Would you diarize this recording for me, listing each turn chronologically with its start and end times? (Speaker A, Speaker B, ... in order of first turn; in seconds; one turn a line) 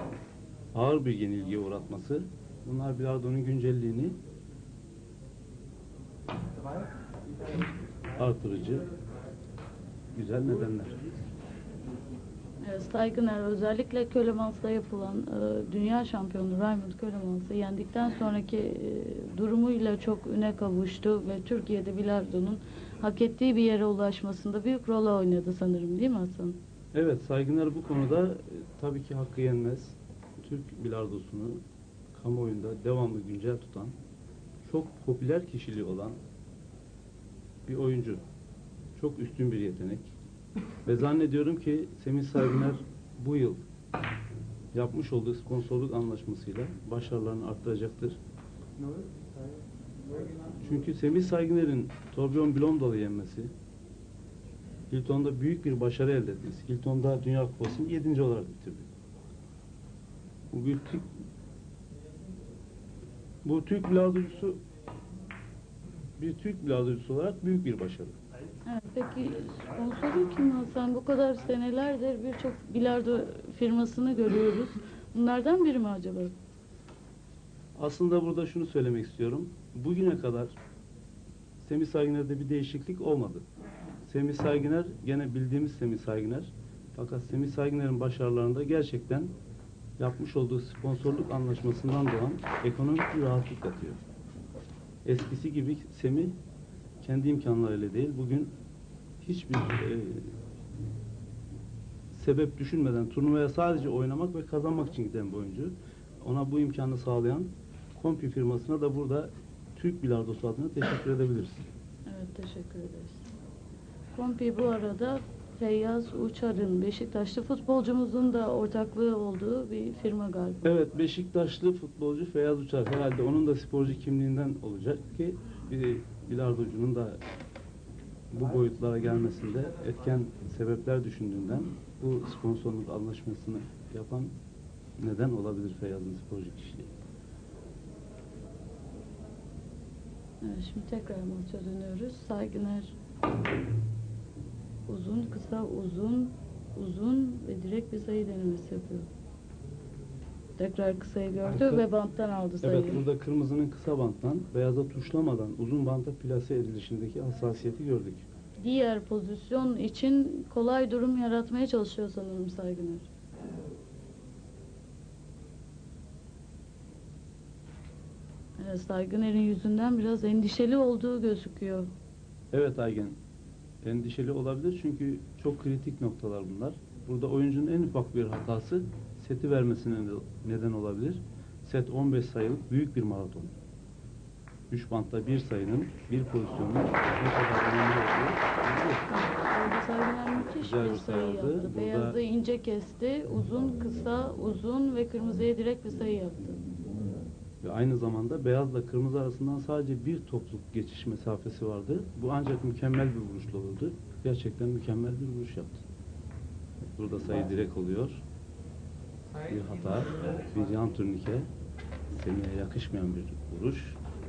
Speaker A: 0.7-4.2
Speaker A: 8.1-8.9
Speaker A: 10.1-11.1
Speaker B: 12.6-26.6
Speaker A: 26.9-31.6
Speaker A: 32.1-33.9
Speaker A: 34.6-36.2
Speaker A: 37.7-38.2
Speaker A: 39.0-40.1
Speaker A: 40.8-43.6
Speaker A: 44.7-48.2
Speaker A: 50.5-53.5
Speaker A: 54.9-58.9
Speaker A: 60.5-61.1
Speaker A: 63.4-64.6
Speaker A: 66.2-68.1
Speaker B: 68.7-76.3
Speaker A: 77.8-80.5
Speaker A: 81.6-83.4
Speaker A: 84.0-89.3
Speaker A: 90.0-94.0
Speaker A: 95.0-96.3
Speaker A: 97.0-98.5
Speaker A: 99.2-100.3
Speaker A: 102.1-111.6
Speaker B: 112.1-113.2
Speaker B: 114.1-120.7
Speaker A: 120.6-127.2
Speaker A: 128.3-134.3
Speaker A: 135.0-136.9
Speaker B: 140.4-142.9
Speaker B: 144.9-149.1
Speaker B: 150.6-153.0
Speaker A: 151.5-151.8
Speaker A: 152.6-158.3
Speaker B: 158.6-163.1
Speaker B: 168.6-171.9
Speaker A: 172.5-173.2
Speaker A: 173.8-183.5
Speaker A: 184.7-189.1
Speaker B: 189.1-196.8
Speaker A: 190.5-192.2
Speaker A: 197.6-205.8
Speaker A: 206.9-208.2
Speaker A: 209.4-211.5
Speaker A: 212.1-214.0